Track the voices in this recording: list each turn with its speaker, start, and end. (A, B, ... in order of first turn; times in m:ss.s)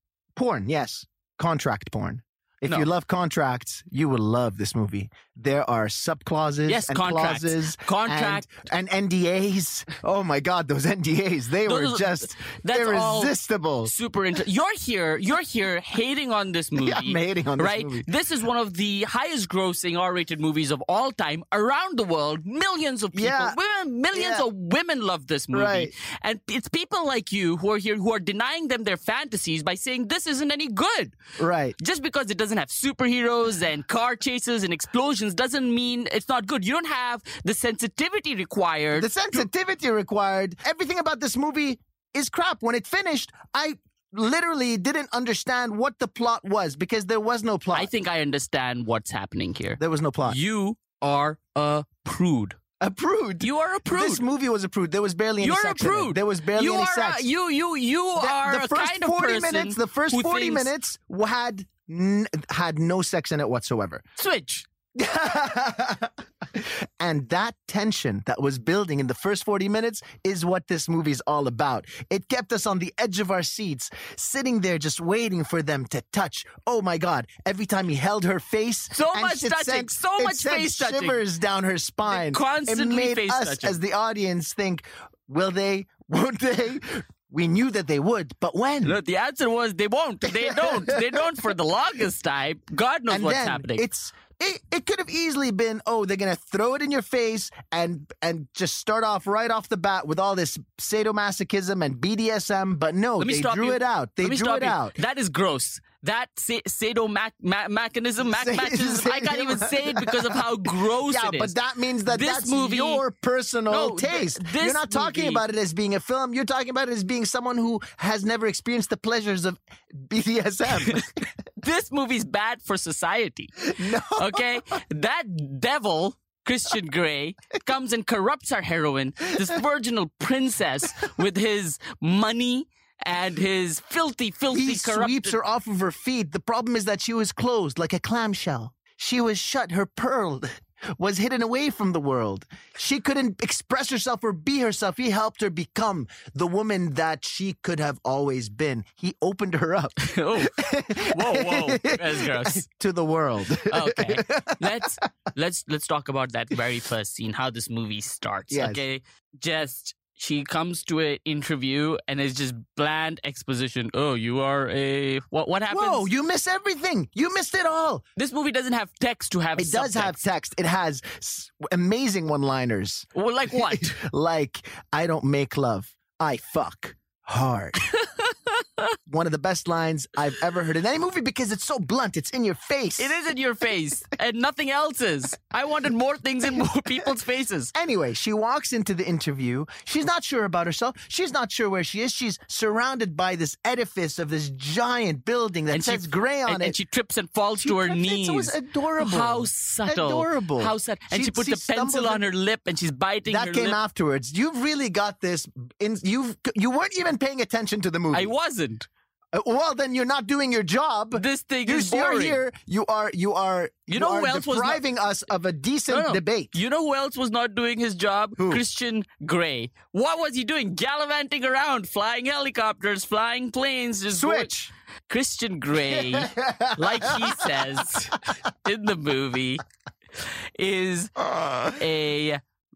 0:00.4-0:13.9 A
0:06.7-0:08.5 B
0:11.6-0:13.3 B
0:13.8-0:31.2 B
0:16.8-0:18.1 A
0:23.1-0:23.6 A
0:24.1-0:24.4 A
0:25.5-0:25.9 A
0:31.4-0:31.8 A
0:31.8-0:39.4 B
0:38.9-0:47.9 A
0:47.7-0:52.6 B
0:49.8-0:50.4 A
0:52.8-0:57.3 A
0:53.4-0:54.2 B
0:55.4-1:00.7 B
0:58.2-1:04.0 A
1:04.2-1:04.7 B
1:04.9-1:29.0 A
1:18.9-1:21.2 B
1:22.1-1:23.8 B
1:28.8-1:33.8 B
1:30.2-1:31.3 A
1:33.1-1:45.0 A
1:43.2-1:51.5 B
1:48.2-2:01.2 A
1:52.1-1:53.0 B
1:53.7-1:55.4 B
2:00.7-2:15.4 B
2:03.6-2:04.6 A
2:14.5-2:34.8 A
2:30.0-2:32.6 B
2:33.6-2:46.1 B
2:38.5-2:38.8 A
2:45.7-2:48.0 A
2:48.2-2:50.2 B
2:49.6-2:57.8 A
2:53.1-2:54.0 B
2:57.8-2:58.9 B
2:59.1-3:03.2 A
3:03.0-3:07.7 B
3:07.7-3:16.8 A
3:15.7-3:23.8 B
3:17.6-3:22.2 A
3:23.3-3:28.3 A
3:28.1-3:28.9 B
3:29.3-3:36.5 A
3:31.1-3:32.4 B
3:33.9-3:34.8 B
3:35.9-3:44.5 B
3:38.4-3:38.6 A
3:44.1-3:44.7 A
3:45.1-3:49.6 B
3:45.9-3:47.9 A
3:50.2-3:51.1 B
3:51.2-3:51.8 A
3:51.7-3:52.4 B